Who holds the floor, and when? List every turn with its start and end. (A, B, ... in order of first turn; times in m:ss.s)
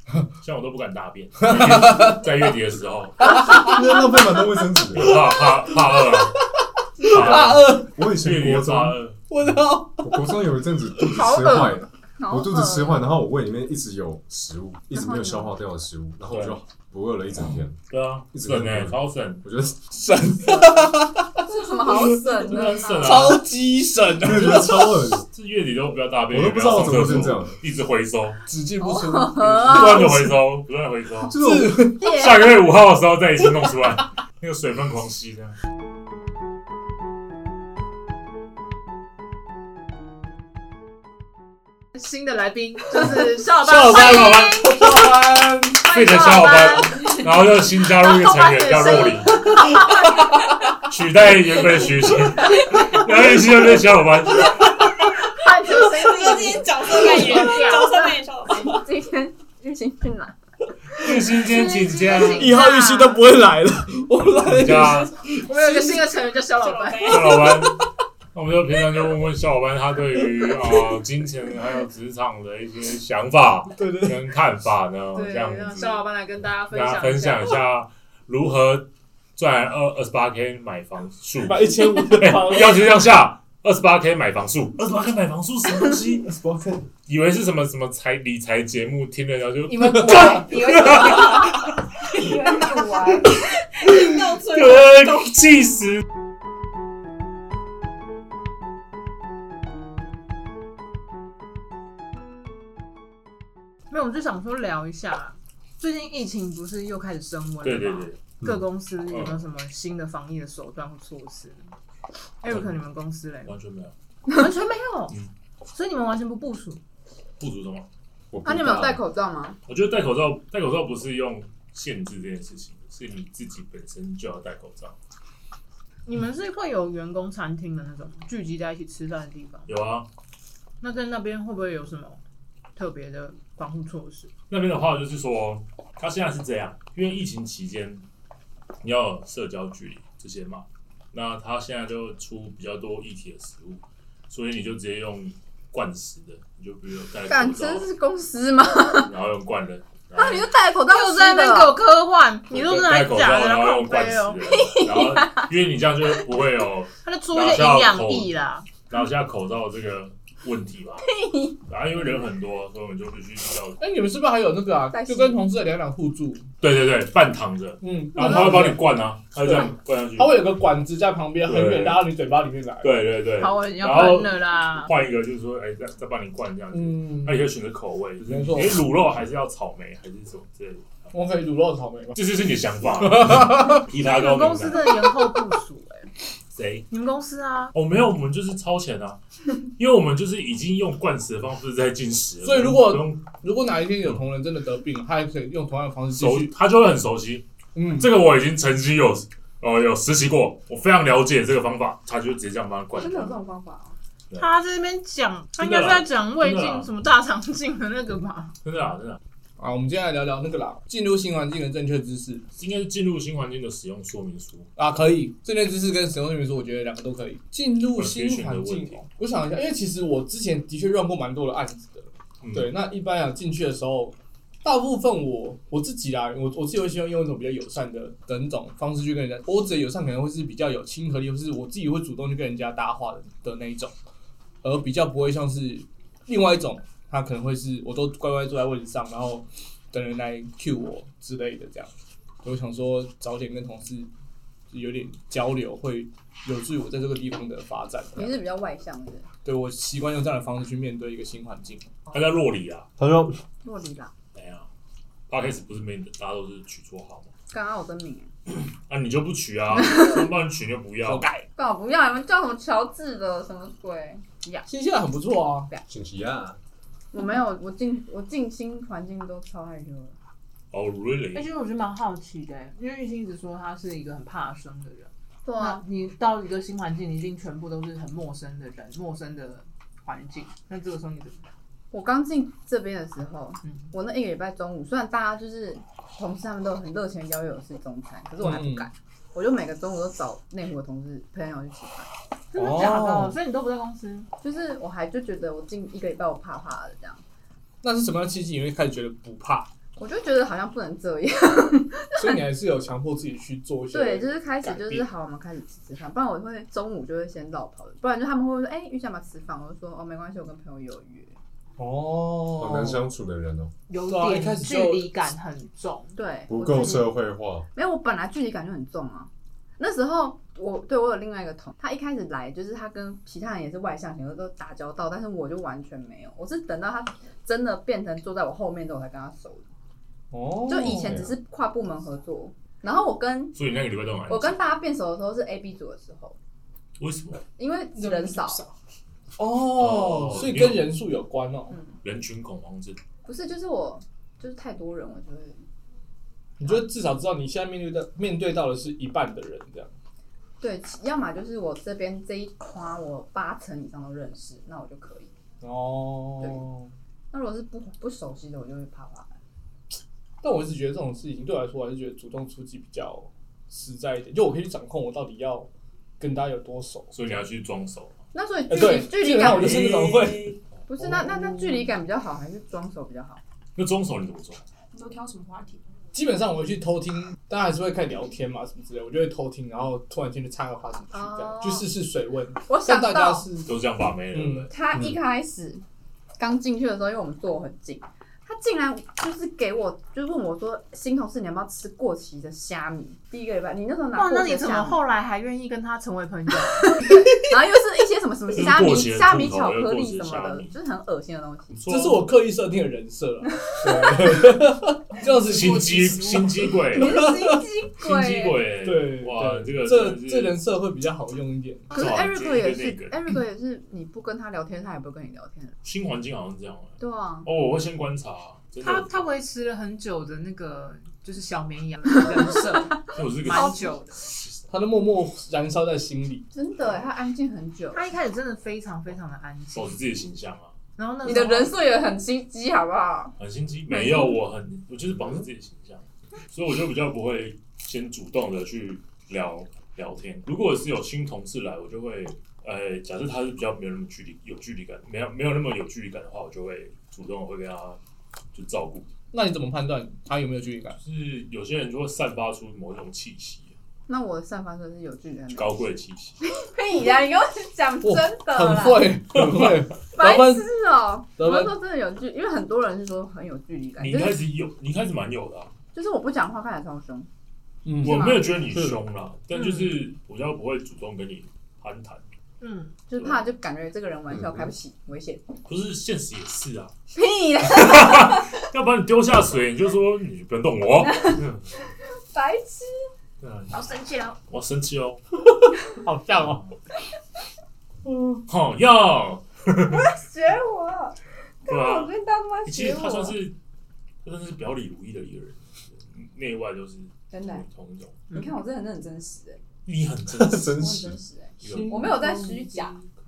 0:00.4-0:03.6 A
0:01.4-0:02.3 B
0:03.2-0:04.2 B
0:03.5-0:05.2 C
0:04.8-0:07.9 B
0:04.9-0:06.4 A
0:07.0-0:09.2 A
0:07.2-0:09.0 C
0:09.3-0:10.4 B
0:10.0-0:17.8 C
0:11.0-0:11.3 B
0:11.1-0:11.8 D
0:12.2-0:13.1 E
0:14.9-0:15.5 E
0:16.3-0:16.6 A
0:17.9-0:19.4 A
0:18.3-0:20.7 C
0:19.9-0:25.1 B
0:21.4-0:23.3 E
0:22.4-0:23.4 A
0:24.2-0:25.2 C
0:25.3-0:28.4 A
0:26.3-0:27.6 C
0:28.5-0:30.4 B
0:28.8-0:30.1 E
0:29.7-0:31.3 A
0:31.3-0:31.9 C
0:31.3-0:32.2 B
0:32.0-0:35.6 A
0:41.9-0:45.0 D
0:43.6-0:45.9 B
0:43.8-0:44.5 A
0:45.8-0:49.6 A
0:45.8-0:47.2 D
0:47.8-0:50.2 D
0:50.8-0:54.6 A
0:54.3-0:55.1 B
0:55.2-0:58.1 D
0:55.8-0:58.7 F
0:56.7-0:57.7 B
0:57.8-1:00.4 E
1:01.0-1:02.6 A
1:01.3-1:03.3 D
1:02.1-1:06.0 B
1:04.4-1:05.1 A
1:05.4-1:07.5 D
1:06.6-1:07.5 F
1:07.0-1:07.8 A
1:07.5-1:07.9 B
1:08.3-1:16.0 A
1:10.2-1:11.0 B
1:13.8-1:14.3 B
1:15.1-1:17.6 D
1:16.7-1:26.3 A
1:21.4-1:22.9 B
1:26.4-1:26.7 B
1:27.0-1:31.7 A
1:29.7-1:31.5 E
1:29.7-1:31.2 D
1:29.9-1:30.3 B
1:32.1-1:33.4 E
1:33.8-1:35.3 F
1:34.3-1:36.0 A
1:43.9-1:51.6 D
1:47.6-1:48.2 A
1:49.1-1:49.4 A
1:52.4-1:53.5 D
1:52.5-1:52.8 A
1:53.4-1:53.9 A
1:54.3-1:55.1 D
1:55.7-1:56.8 D
1:57.4-1:57.9 A
1:58.3-1:59.0 C
1:58.4-1:59.6 E
1:59.7-2:05.0 A
2:06.0-2:09.7 D
2:09.7-2:10.1 A
2:10.8-2:12.2 D
2:12.7-2:14.3 D
2:14.5-2:18.0 A
2:18.8-2:27.9 A
2:27.3-2:29.1 E
2:29.0-2:30.5 A
2:30.1-2:31.8 E
2:30.9-2:34.4 D
2:32.5-2:38.3 A
2:34.4-2:35.5 E
2:37.0-2:38.7 D
2:38.9-2:41.0 A
2:41.0-2:41.6 E
2:41.7-2:43.8 A
2:43.8-2:46.5 B
2:44.9-2:45.4 E
2:46.6-2:50.5 A
2:47.8-2:48.9 B
2:49.4-2:53.0 B
2:51.4-2:52.1 A
2:52.8-3:01.1 A
2:53.3-2:54.9 D
2:56.7-2:57.5 B
2:58.2-2:58.8 B
3:01.1-3:02.2 B
3:02.1-3:05.0 A
3:03.0-3:03.8 B
3:04.0-3:06.1 D
3:06.5-3:06.9 A
3:06.9-3:07.7 D
3:07.7-3:09.2 A
3:09.8-3:13.3 A
3:12.4-3:16.5 B
3:16.1-3:23.4 A
3:17.7-3:18.1 B
3:22.9-3:24.0 E
3:24.4-3:28.5 D
3:25.6-3:26.9 A
3:28.6-3:29.2 A
3:29.6-3:32.4 B
3:32.6-3:34.7 A
3:34.8-3:53.9 B
3:38.0-3:39.0 A
3:42.4-3:42.7 A
3:54.6-4:01.9 B
4:02.4-4:04.1 B
4:04.7-4:08.4 B
4:08.2-4:09.3 E
4:09.4-4:11.9 B
4:12.1-4:12.9 A
4:13.0-4:13.4 C
4:13.6-4:14.1 E
4:14.3-4:14.6 A
4:15.3-4:17.3 A
4:17.5-4:18.3 E
4:18.9-4:21.3 A
4:21.0-4:21.4 B
4:21.6-4:24.6 E
4:24.7-4:25.7 B
4:25.9-4:26.6 C
4:27.1-4:30.1 E
4:30.7-4:31.5 A
4:31.3-4:41.4 D
4:35.4-4:35.8 E
4:41.9-4:52.1 E
4:48.4-4:48.9 B
4:52.5-4:54.3 D
4:52.6-4:53.4 B
4:54.4-4:57.2 E
4:57.8-4:59.7 B
5:00.0-5:02.4 E
5:02.1-5:05.1 B
5:03.9-5:11.3 E
5:11.8-5:13.0 B
5:12.5-5:13.7 C
5:13.9-5:16.2 D
5:14.1-5:15.1 B
5:16.1-5:17.2 E
5:16.5-5:17.6 C
5:17.7-5:29.7 E
5:30.3-5:31.3 B
5:30.7-5:33.6 E
5:30.9-5:31.3 A
5:33.5-5:34.6 A
5:34.3-5:36.4 E
5:37.0-5:37.4 A
5:37.6-5:38.6 E
5:38.0-5:38.6 F
5:39.4-5:41.8 B
5:39.7-5:41.0 A
5:42.0-5:43.0 A
5:43.2-5:45.6 E
5:46.6-5:49.9 B
5:50.6-5:55.3 E
5:55.6-5:56.9 B
5:57.3-5:59.3 E
6:00.4-6:05.7 B
6:06.2-6:07.1 B
6:07.1-6:08.2 A
6:08.3-6:10.1 E
6:08.7-6:11.8 B
6:09.3-6:10.6 A
6:10.9-6:13.4 E
6:13.8-6:14.6 A
6:14.9-6:15.8 F
6:16.1-6:23.7 B
6:21.1-6:21.9 E
6:22.7-6:23.5 E
6:23.6-6:24.7 A
6:24.3-6:25.2 B
6:24.7-6:25.8 E
6:26.4-6:35.0 E
6:34.1-6:37.0 D
6:36.9-6:41.8 E
6:38.5-6:40.7 A
6:41.7-6:42.2 A
6:41.9-6:47.6 B
6:43.7-6:44.1 E
6:45.4-6:47.3 A
6:46.9-6:48.6 E
6:48.0-6:50.6 A
6:48.8-6:51.9 B
6:51.9-6:55.7 E
6:51.9-6:53.2 A
6:55.8-6:59.2 A
6:57.0-6:57.5 E
6:58.8-7:04.2 D
7:03.1-7:04.6 A
7:03.5-7:04.0 E
7:04.7-7:06.4 B
7:06.5-7:08.0 E
7:07.9-7:10.0 D
7:09.7-7:10.8 A
7:11.0-7:11.7 D
7:11.2-7:13.3 E
7:13.4-7:28.0 A
7:13.9-7:14.4 E
7:28.5-7:29.1 A
7:29.3-7:31.0 B
7:31.0-7:33.8 A
7:34.1-7:35.7 E
7:35.5-7:36.4 A
7:36.4-7:39.2 E
7:38.0-7:40.7 B
7:39.4-7:39.7 A
7:40.1-7:44.4 E
7:41.4-7:41.7 B
7:44.0-7:45.7 A
7:45.9-7:47.3 E
7:47.8-7:49.0 B
7:48.0-7:52.2 A
7:48.0-7:48.5 E
7:49.5-7:49.9 D
7:52.6-7:52.9 D
7:53.1-7:55.4 E
7:53.1-7:53.4 A
7:54.4-7:54.7 A
7:55.7-7:56.9 A
7:57.1-7:58.4 E
7:57.7-8:01.7 A
8:01.0-8:01.4 E
8:02.3-8:03.0 E
8:03.4-8:03.9 A
8:03.7-8:04.4 F
8:04.5-8:05.2 A
8:05.4-8:06.6 B
8:06.4-8:06.7 A
8:08.0-8:08.4 B
8:08.5-8:10.0 A
8:09.8-8:13.4 E
8:11.7-8:12.1 A
8:12.6-8:13.5 A
8:14.2-8:18.2 A
8:17.3-8:17.6 E
8:18.3-8:18.6 D
8:18.3-8:19.6 E
8:19.8-8:22.1 A
8:20.4-8:21.0 C
8:20.6-8:22.9 E
8:21.6-8:23.1 B